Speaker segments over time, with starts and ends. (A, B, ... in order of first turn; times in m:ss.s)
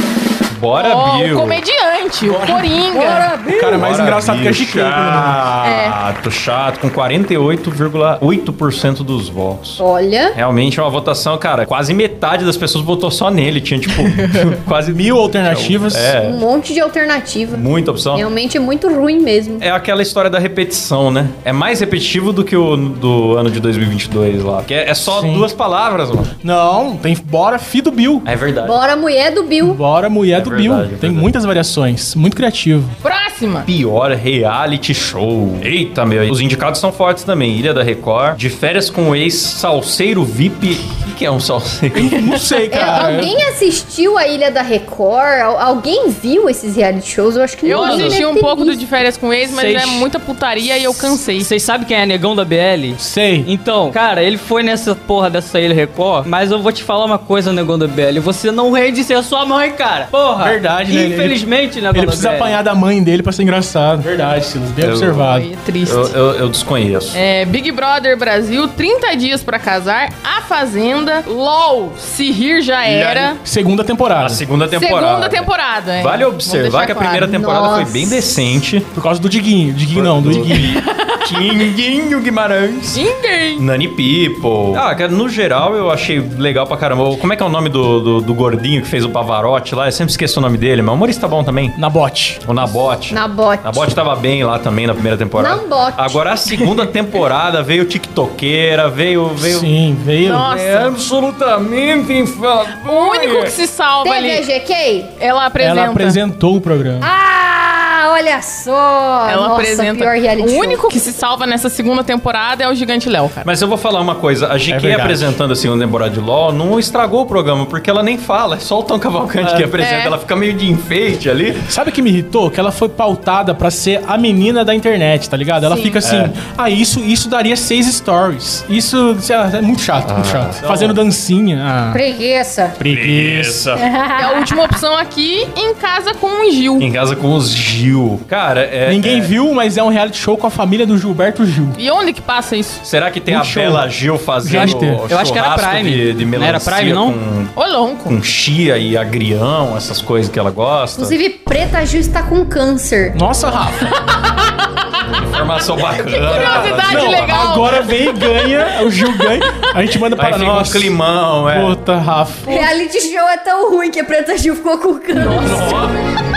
0:00.5-0:01.6 A
0:00.8-0:03.3 B
0:02.2-0:05.5 C
0:02.9-0:03.8 D
0:03.7-0:09.8 A
0:05.6-0:05.9 D
0:09.8-0:10.4 D
0:10.3-0:16.4 A
0:14.9-0:16.2 C
0:16.2-0:19.6 D
0:17.5-0:18.2 A
0:19.6-0:26.3 A
0:25.1-0:25.5 C
0:26.4-0:28.3 C
0:28.2-0:28.8 A
0:28.6-0:29.8 D
0:29.6-0:32.9 C
0:30.3-0:31.3 A
0:33.0-0:33.7 B
0:33.6-0:42.3 A
0:41.9-0:43.3 C
0:42.7-0:48.8 D
0:47.6-0:51.5 B
0:47.7-0:48.2 E
0:49.5-0:50.0 E
0:51.3-1:02.6 E
0:53.0-0:53.5 C
1:00.4-1:05.5 C
1:04.8-1:05.2 A
1:05.2-1:06.1 B
1:05.8-1:07.2 A
1:07.1-1:13.4 B
1:12.8-1:13.3 A
1:13.4-1:14.4 C
1:14.2-1:18.9 A
1:14.7-1:17.3 B
1:17.2-1:18.4 D
1:18.9-1:20.8 C
1:19.9-1:23.0 A
1:20.5-1:21.5 B
1:22.9-1:23.6 B
1:23.6-1:31.8 A
1:31.8-1:32.4 C
1:32.4-1:39.7 A
1:33.1-1:33.9 D
1:35.4-1:36.2 D
1:39.4-1:40.5 C
1:40.2-1:41.0 B
1:40.3-1:43.6 A
1:42.8-1:44.4 B
1:44.0-1:45.1 D
1:45.2-1:46.2 B
1:45.6-1:47.1 C
1:47.0-1:51.0 D
1:49.2-1:53.5 B
1:53.4-2:01.6 A
1:54.7-1:55.4 C
1:59.8-2:00.2 B
2:01.7-2:12.0 C
2:05.6-2:06.0 B
2:06.0-2:06.3 A
2:10.0-2:11.0 A
2:11.9-2:12.8 D
2:12.8-2:13.6 C
2:12.8-2:13.9 A
2:13.8-2:14.7 D
2:14.2-2:16.9 B
2:16.8-2:19.3 A
2:18.8-2:21.8 C
2:21.8-2:22.8 B
2:22.8-2:27.5 A
2:23.3-2:23.9 C
2:24.4-2:25.0 C
2:24.5-2:27.2 E
2:27.6-2:28.2 B
2:28.1-2:31.1 A
2:31.0-2:33.2 D
2:33.1-2:33.9 C
2:35.1-2:37.6 A
2:36.0-2:39.2 B
2:36.4-2:40.9 C
2:40.1-2:41.8 A
2:41.5-2:42.4 C
2:42.4-2:46.0 D
2:45.3-2:45.6 E
2:45.4-2:45.8 A